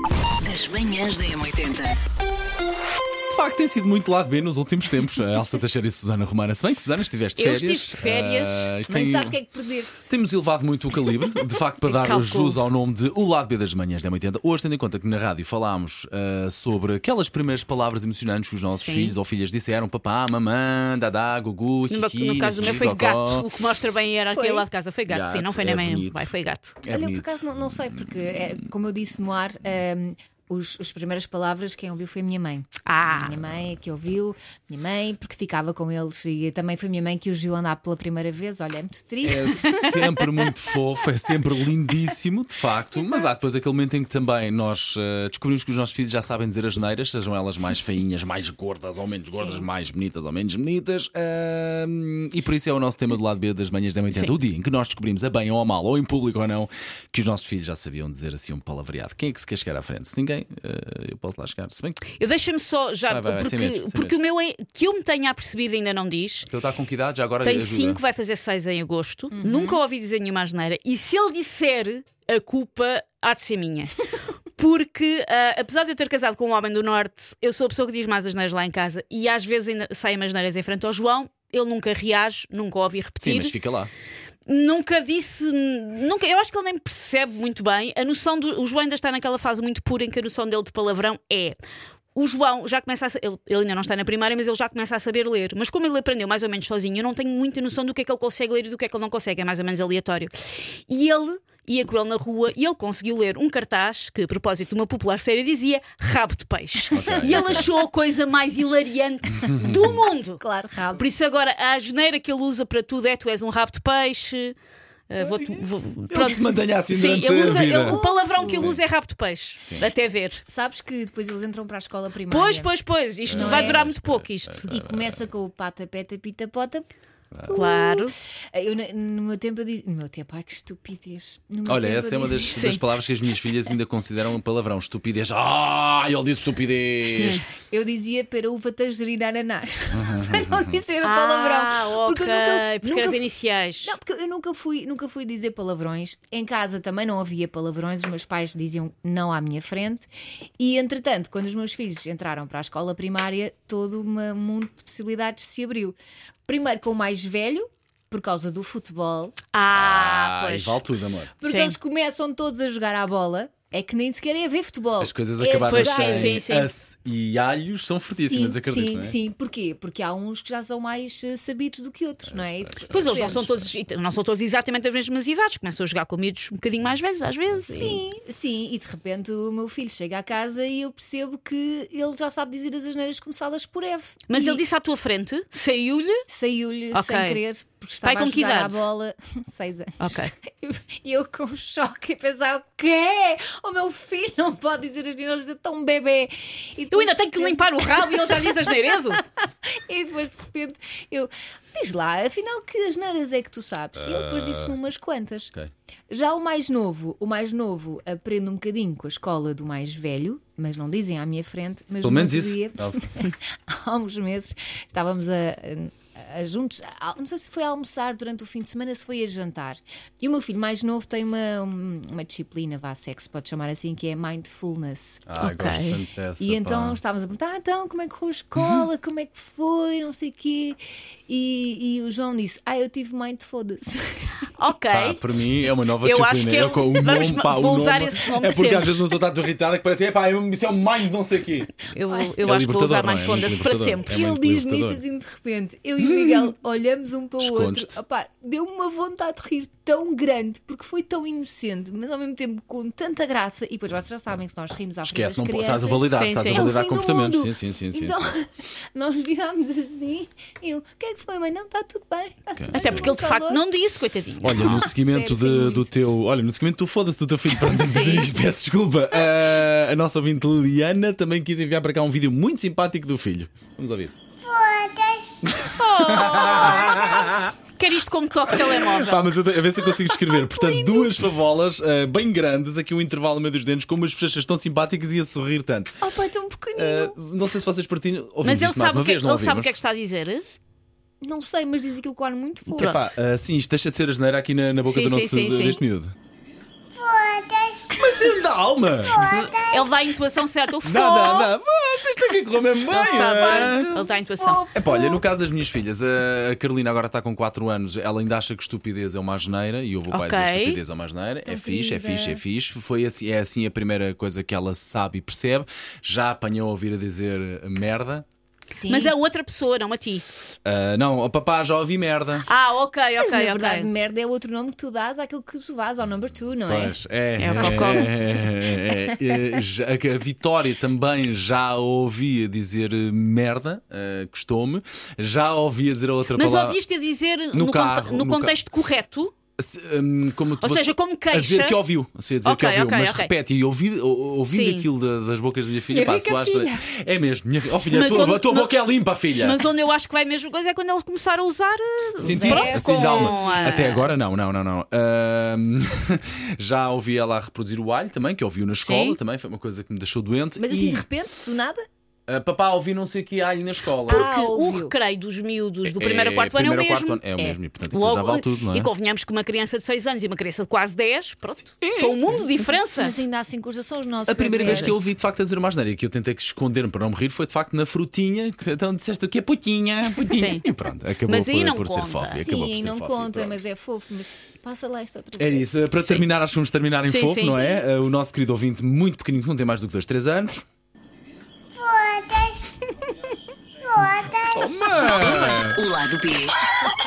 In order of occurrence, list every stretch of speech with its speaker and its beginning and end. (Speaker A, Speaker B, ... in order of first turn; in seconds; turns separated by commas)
Speaker A: 0.4-2.0, Speaker B: 3.3-9.4, Speaker C: 7.4-8.7, Speaker D: 8.9-10.1, Speaker B: 10.1-23.4, Speaker C: 11.8-12.6, Speaker C: 18.7-19.2, Speaker C: 21.9-26.8, Speaker D: 24.3-24.7, Speaker B: 25.1-26.3, Speaker B: 26.8-28.4, Speaker D: 26.9-39.9, Speaker C: 32.9-33.4, Speaker B: 39.2-62.0, Speaker C: 39.7-40.3, Speaker D: 42.9-43.3, Speaker D: 49.2-49.7, Speaker C: 62.1-66.5, Speaker B: 63.1-64.1, Speaker B: 66.5-68.0, Speaker C: 67.4-83.6, Speaker D: 69.3-69.8, Speaker B: 83.2-83.9, Speaker C: 84.5-91.6, Speaker C: 92.2-114.6, Speaker B: 106.9-107.7, Speaker D: 107.1-107.6, Speaker B: 109.5-109.9, Speaker D: 110.4-111.1, Speaker C: 115.1-120.4, Speaker B: 115.2-118.8, Speaker D: 117.4-118.7, Speaker D: 120.5-122.7, Speaker C: 122.3-124.7, Speaker B: 123.3-125.2, Speaker D: 123.3-123.8, Speaker D: 124.7-126.9, Speaker B: 127.3-127.6, Speaker D: 127.4-132.6, Speaker C: 127.5-128.1, Speaker B: 131.7-137.4, Speaker C: 132.5-132.8, Speaker C: 137.2-137.4, Speaker D: 137.6-143.2, Speaker B: 139.9-140.8, Speaker C: 141.0-143.9, Speaker D: 143.8-156.0, Speaker D: 156.5-159.3, Speaker C: 159.5-160.8, Speaker B: 159.7-161.3, Speaker D: 161.4-166.4, Speaker C: 161.5-161.8, Speaker B: 165.0-169.2, Speaker C: 165.6-166.7, Speaker D: 168.1-173.5, Speaker B: 172.2-173.6, Speaker C: 172.9-178.0, Speaker B: 177.7-178.0, Speaker D: 177.7-184.6, Speaker C: 184.3-186.2, Speaker D: 186.3-205.5, Speaker C: 186.9-187.4, Speaker C: 188.0-188.8, Speaker C: 190.0-190.3, Speaker C: 196.9-199.2, Speaker B: 204.0-204.7, Speaker D: 206.1-225.6, Speaker B: 212.0-213.0, Speaker B: 225.3-227.0, Speaker C: 225.4-226.0, Speaker D: 226.4-234.4, Speaker C: 234.6-235.2, Speaker B: 234.9-241.7, Speaker C: 236.0-239.2, Speaker C: 241.9-244.1, Speaker B: 242.4-245.0, Speaker D: 244.0-263.6, Speaker B: 246.0-246.5, Speaker B: 247.4-248.0, Speaker B: 255.0-258.2, Speaker C: 256.1-256.7, Speaker B: 262.6-263.1, Speaker C: 262.7-264.8, Speaker B: 264.4-274.1, Speaker D: 264.6-265.9, Speaker C: 267.6-268.4, Speaker B: 275.4-277.5, Speaker C: 275.7-279.3, Speaker B: 278.5-286.1, Speaker D: 280.3-281.2, Speaker D: 286.0-287.2, Speaker B: 286.8-289.7, Speaker C: 288.4-290.5, Speaker D: 291.2-293.0, Speaker C: 292.8-293.1, Speaker B: 292.8-296.1, Speaker C: 294.9-295.8, Speaker B: 297.9-299.3, Speaker C: 299.3-301.5, Speaker B: 300.8-303.9, Speaker C: 302.9-304.6, Speaker D: 302.9-305.2, Speaker B: 304.7-318.3, Speaker C: 310.1-310.8, Speaker D: 311.4-312.4, Speaker D: 318.8-319.1, Speaker C: 318.9-320.3, Speaker B: 320.6-322.5, Speaker C: 322.5-323.9, Speaker D: 323.2-327.0, Speaker B: 326.6-336.8, Speaker C: 327.4-328.1, Speaker D: 327.8-328.1, Speaker D: 328.9-329.5, Speaker C: 336.4-339.3, Speaker B: 337.5-338.5, Speaker B: 339.6-349.6, Speaker C: 340.6-341.8, Speaker C: 342.4-343.3, Speaker C: 344.5-344.9, Speaker D: 345.9-346.9, Speaker C: 347.9-348.8, Speaker C: 349.3-354.1, Speaker D: 352.2-353.9, Speaker B: 352.2-361.1, Speaker C: 358.8-359.2, Speaker D: 360.6-361.8, Speaker B: 362.3-364.3, Speaker D: 364.1-364.9, Speaker C: 364.1-367.2, Speaker B: 365.9-368.9, Speaker C: 367.9-373.2, Speaker B: 371.7-372.4, Speaker D: 372.9-375.0, Speaker B: 374.3-383.6, Speaker C: 374.6-375.0, Speaker C: 380.2-380.6, Speaker C: 381.3-382.5, Speaker D: 382.4-385.9, Speaker B: 385.4-390.6, Speaker C: 387.0-387.8, Speaker D: 392.8-393.1, Speaker B: 394.5-395.8, Speaker A: 395.7-396.7